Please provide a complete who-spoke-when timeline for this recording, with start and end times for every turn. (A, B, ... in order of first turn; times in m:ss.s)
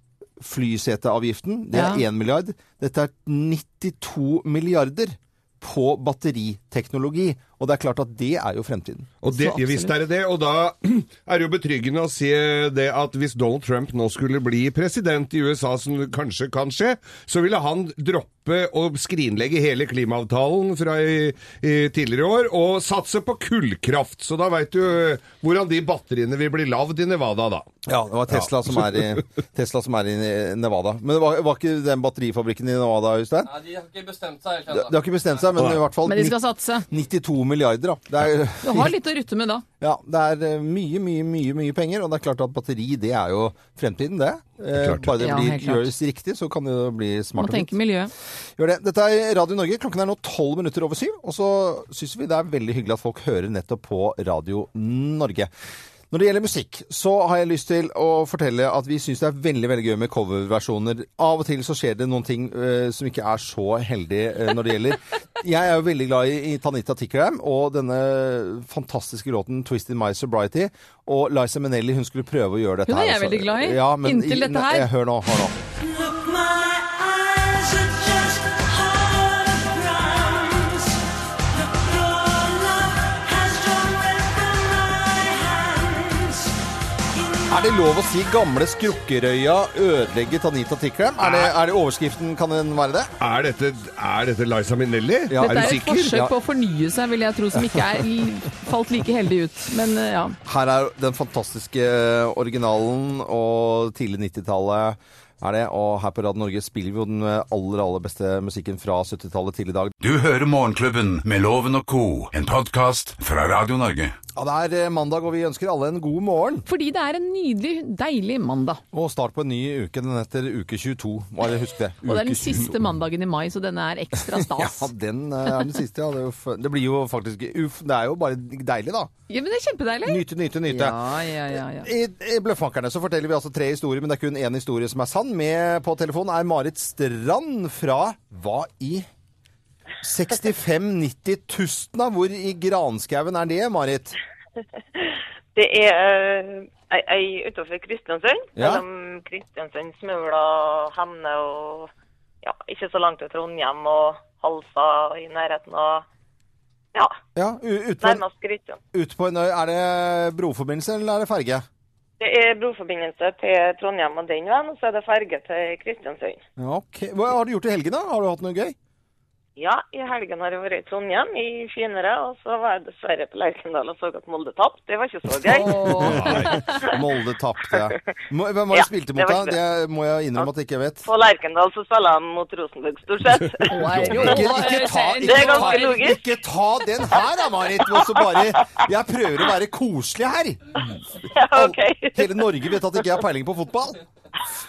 0:00.4-0:09.1 A
0:01.7-0:02.0 B
0:09.2-0:27.7 C
0:09.3-0:09.9 B
0:27.9-0:33.5 A
0:28.3-0:29.2 C
0:33.4-0:35.4 D
0:34.7-0:39.0 A
0:35.6-0:35.8 C
0:36.0-0:36.8 B
0:38.6-0:39.6 B
0:39.8-0:47.8 A
0:44.8-0:45.1 C
0:45.2-0:45.9 B
0:47.4-0:48.1 B
0:48.6-0:55.5 A
0:56.1-1:15.6 A
1:12.9-1:14.9 B
1:15.8-1:26.6 E
1:27.2-1:27.5 E
1:27.5-1:33.1 A
1:31.2-1:31.5 C
1:33.2-1:36.1 C
1:35.3-1:36.3 A
1:35.4-1:40.4 B
1:40.4-1:49.9 A
1:50.0-1:54.2 F
1:54.3-1:56.6 A
1:56.6-1:58.8 B
1:58.9-2:02.8 A
2:02.0-2:04.9 B
2:04.3-2:09.1 A
2:09.3-2:11.9 B
2:10.0-2:11.0 A
2:11.5-2:19.0 A
2:20.0-2:24.2 A
2:25.0-2:31.9 G
2:28.6-2:28.8 A
2:32.4-2:36.0 G
2:37.3-2:38.2 A
2:38.0-2:38.8 G
2:38.9-2:41.6 A
2:42.2-2:46.4 G
2:46.6-2:48.8 A
2:49.6-2:55.9 G
2:55.5-2:56.7 B
2:55.6-3:01.1 A
2:56.0-2:56.6 C
2:58.7-2:59.5 G
3:01.0-3:04.7 G
3:03.7-3:06.0 B
3:03.8-3:04.5 C
3:03.9-3:10.8 A
3:05.2-3:06.2 G
3:07.9-3:08.4 G
3:11.3-3:12.5 G
3:11.5-3:14.0 A